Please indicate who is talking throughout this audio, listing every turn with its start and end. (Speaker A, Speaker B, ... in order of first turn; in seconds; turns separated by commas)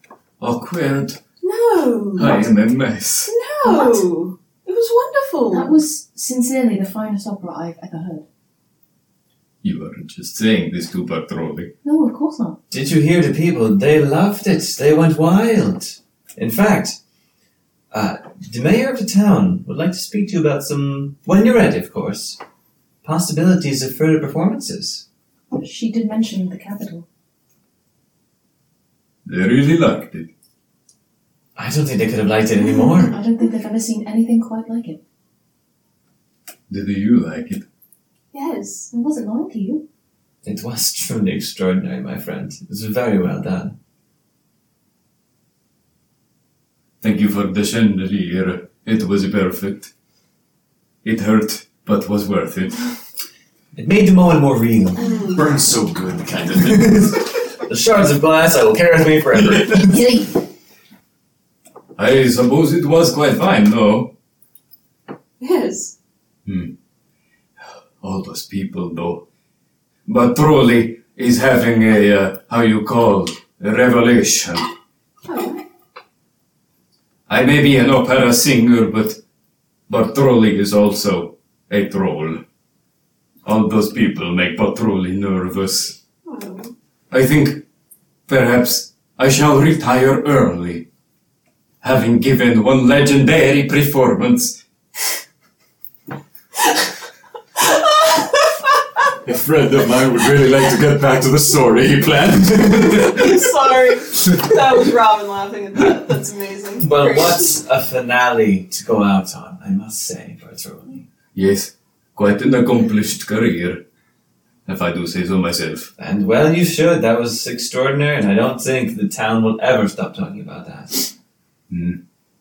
Speaker A: 0.4-1.2, Speaker B: 1.4-2.5, Speaker A: 2.1-3.3, Speaker B: 3.2-5.8, Speaker C: 3.6-4.1, Speaker C: 5.5-8.2, Speaker A: 9.6-11.7, Speaker C: 11.8-12.6, Speaker D: 12.7-17.0, Speaker D: 17.9-22.4, Speaker D: 23.0-25.1, Speaker C: 25.5-27.1, Speaker A: 29.3-30.3, Speaker D: 31.6-33.2, Speaker C: 33.0-35.0, Speaker A: 36.7-37.6, Speaker B: 38.3-38.9, Speaker C: 38.9-39.8, Speaker D: 40.4-43.8, Speaker A: 47.0-49.9, Speaker A: 51.0-52.9, Speaker D: 53.8-55.0, Speaker B: 55.0-55.4, Speaker E: 55.3-57.1, Speaker D: 56.6-60.0, Speaker C: 59.8-60.4, Speaker A: 62.0-64.1, Speaker B: 65.4-65.9, Speaker A: 66.5-66.7, Speaker A: 68.0-69.2, Speaker A: 70.1-74.7, Speaker B: 75.2-75.6, Speaker A: 77.3-79.2, Speaker A: 79.9-82.4, Speaker A: 83.5-86.0, Speaker B: 86.3-86.7, Speaker A: 87.1-87.6, Speaker A: 88.3-90.9, Speaker A: 91.8-94.6, Speaker E: 99.2-103.4, Speaker B: 103.0-107.6, Speaker D: 106.8-111.1, Speaker A: 111.3-113.8, Speaker A: 114.7-115.9, Speaker D: 116.0-121.1, Speaker A: 121.7-122.0